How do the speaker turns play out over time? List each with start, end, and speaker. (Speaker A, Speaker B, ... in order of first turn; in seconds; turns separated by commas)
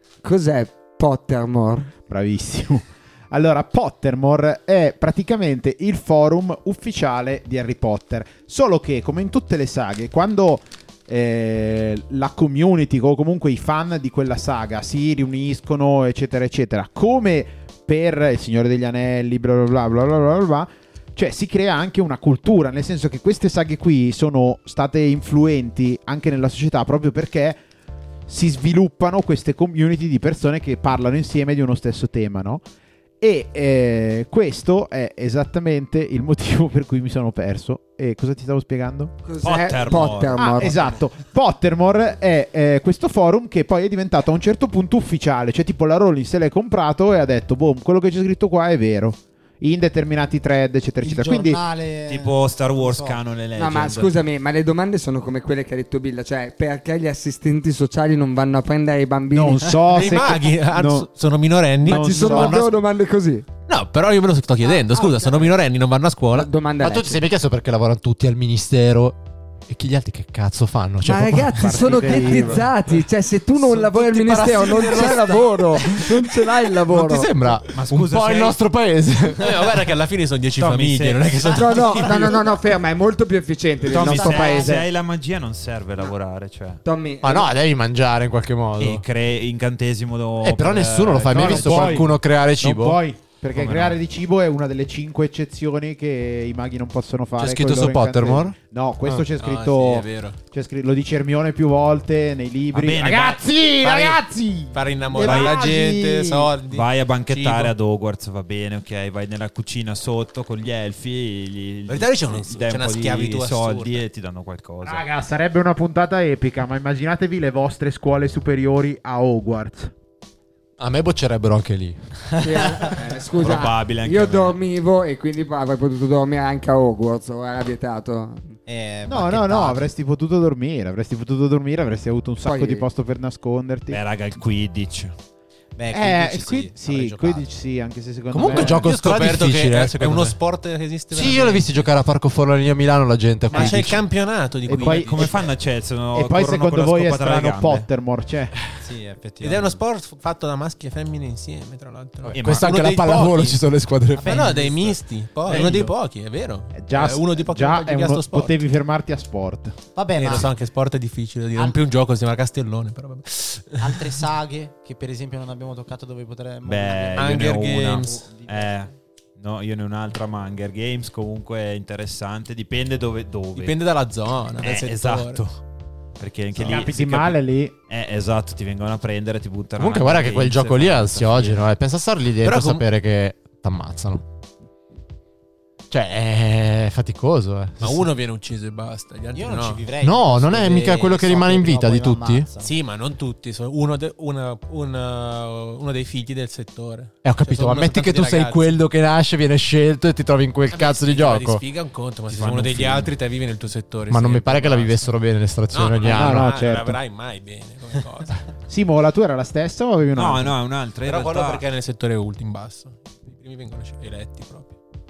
Speaker A: 0.2-1.9, Speaker B: 2.1-27.6, Speaker B: 28.3-32.6, Speaker B: 33.2-39.1, Speaker A: 39.2-40.9, Speaker C: 39.4-40.8, Speaker B: 40.3-51.6, Speaker D: 51.0-53.2, Speaker C: 52.1-54.1, Speaker A: 53.5-59.8, Speaker B: 59.3-61.1, Speaker E: 59.9-62.7, Speaker B: 61.8-62.7, Speaker A: 61.8-63.5, Speaker E: 63.7-66.5, Speaker A: 64.6-65.5, Speaker A: 66.3-67.2, Speaker F: 66.8-72.4, Speaker A: 71.0-77.5, Speaker B: 71.6-72.7, Speaker F: 73.6-79.8, Speaker C: 77.7-78.6, Speaker E: 79.4-82.4, Speaker C: 80.6-82.4, Speaker A: 81.5-84.8, Speaker C: 83.9-86.8, Speaker B: 83.9-84.9, Speaker D: 84.0-84.8, Speaker A: 86.8-87.5, Speaker F: 87.2-89.0, Speaker C: 88.8-92.1, Speaker F: 90.4-93.0, Speaker B: 91.3-106.5, Speaker C: 93.5-94.0, Speaker F: 97.4-98.5, Speaker E: 99.4-100.4, Speaker C: 102.7-103.4, Speaker E: 104.7-107.7, Speaker C: 105.1-105.6, Speaker C: 106.7-115.0, Speaker E: 111.9-114.0, Speaker B: 114.8-119.9, Speaker F: 120.8-122.0, Speaker A: 122.4-128.5, Speaker C: 123.4-124.6, Speaker D: 128.7-129.9, Speaker B: 129.1-134.0, Speaker A: 132.4-132.9, Speaker C: 133.9-135.1, Speaker D: 135.7-137.5, Speaker B: 135.9-138.9, Speaker F: 138.3-140.3, Speaker E: 138.4-141.9, Speaker F: 141.1-144.0, Speaker E: 143.5-145.4, Speaker B: 144.7-145.4, Speaker C: 144.7-147.8, Speaker B: 146.1-148.5, Speaker D: 148.8-149.8, Speaker E: 149.4-153.6, Speaker F: 152.3-154.6, Speaker C: 152.4-152.8, Speaker D: 154.2-155.8, Speaker E: 154.2-158.6, Speaker B: 156.8-159.8, Speaker D: 159.9-160.6, Speaker E: 160.1-164.2, Speaker D: 163.8-168.8, Speaker C: 166.6-173.8, Speaker E: 167.1-168.2, Speaker E: 173.5-175.4, Speaker C: 174.6-175.5, Speaker C: 176.2-181.6, Speaker B: 176.5-177.7, Speaker F: 179.8-184.2, Speaker E: 182.4-182.8, Speaker F: 185.9-188.1, Speaker E: 187.8-189.8, Speaker D: 189.3-192.7, Speaker F: 190.0-192.5, Speaker E: 192.6-198.7, Speaker F: 197.2-201.6, Speaker E: 200.7-205.1, Speaker C: 202.3-203.1, Speaker F: 204.1-206.5, Speaker E: 205.7-208.4, Speaker B: 206.1-207.0, Speaker B: 208.7-210.6, Speaker C: 210.1-211.6, Speaker E: 211.0-214.7